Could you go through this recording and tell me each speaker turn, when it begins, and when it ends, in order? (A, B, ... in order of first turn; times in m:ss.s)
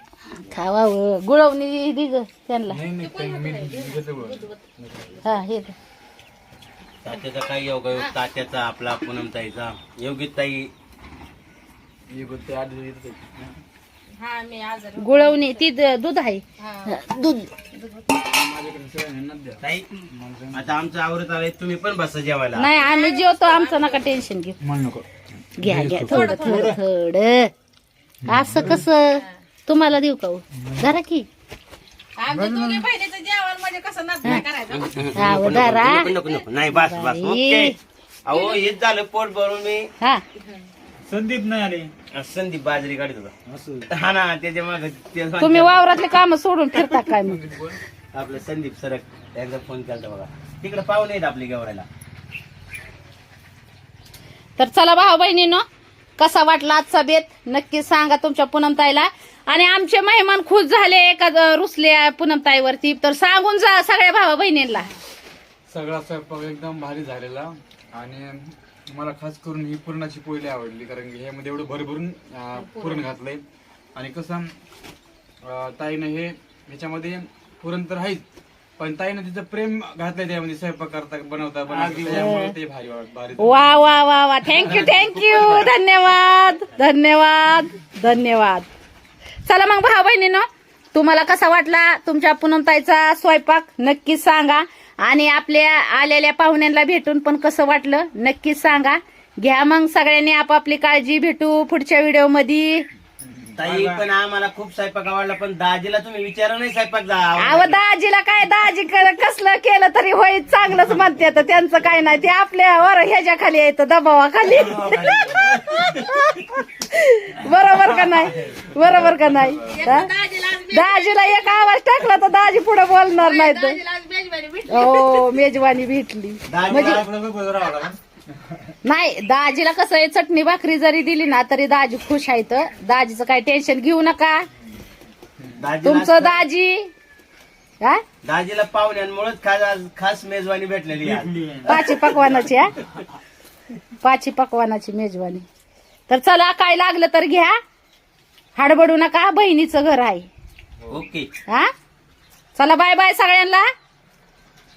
0:00.4-0:02.8 A
0:02.7-0:05.2 B
0:03.0-0:04.6 C
0:05.2-0:05.8 A
0:07.0-0:10.7 D
0:12.1-0:13.6 B
0:14.2-0:15.7 C
0:15.0-0:17.5 A
0:16.6-0:17.0 C
0:17.7-0:18.2 C
0:18.2-0:20.7 B
0:19.6-0:19.9 D
0:20.5-0:22.8 D
0:22.6-0:24.6 A
0:22.8-0:24.0 C
0:24.6-0:25.1 B
0:25.6-0:27.5 A
0:25.6-0:26.8 E
0:26.0-0:26.7 C
0:28.2-0:28.8 E
0:28.2-0:31.2 A
0:30.6-0:30.9 E
0:32.2-0:35.0 C
0:32.4-0:32.8 E
0:34.7-0:37.8 D
0:35.1-0:36.1 A
0:35.8-0:36.5 C
0:36.7-0:37.8 A
0:38.2-0:39.9 D
0:38.3-0:38.7 C
0:40.4-0:40.7 C
0:41.1-0:41.9 E
0:42.1-0:43.3 D
0:43.5-0:43.9 E
0:43.9-0:45.9 D
0:45.4-0:47.4 A
0:46.7-0:47.8 B
0:48.1-0:51.9 D
0:54.6-0:55.6 A
0:56.2-1:04.9 A
1:05.7-1:13.4 B
1:12.6-1:13.1 C
1:14.0-1:14.5 B
1:15.4-1:18.2 B
1:18.8-1:23.8 B
1:21.7-1:22.5 E
1:22.1-1:22.5 A
1:23.4-1:28.7 A
1:24.6-1:25.6 B
1:29.5-1:42.8 A
1:43.6-1:47.8 D
1:43.6-1:44.0 E
1:47.4-2:00.1 A
1:54.7-1:56.1 D
1:59.0-1:59.7 B
1:59.6-2:01.6 C
2:00.7-2:03.8 A
2:03.2-2:05.3 C
2:04.7-2:07.0 A
2:06.5-2:06.9 D
2:06.6-2:08.0 E
2:08.8-2:14.5 A
2:15.6-2:16.4 D
2:15.8-2:16.9 A
2:18.2-2:21.3 D
2:21.0-2:22.2 E
2:21.7-2:22.7 A
2:24.0-2:25.4 A
2:26.1-2:27.6 A
2:28.6-2:30.3 A
2:30.9-2:31.3 D
2:32.6-2:33.6 A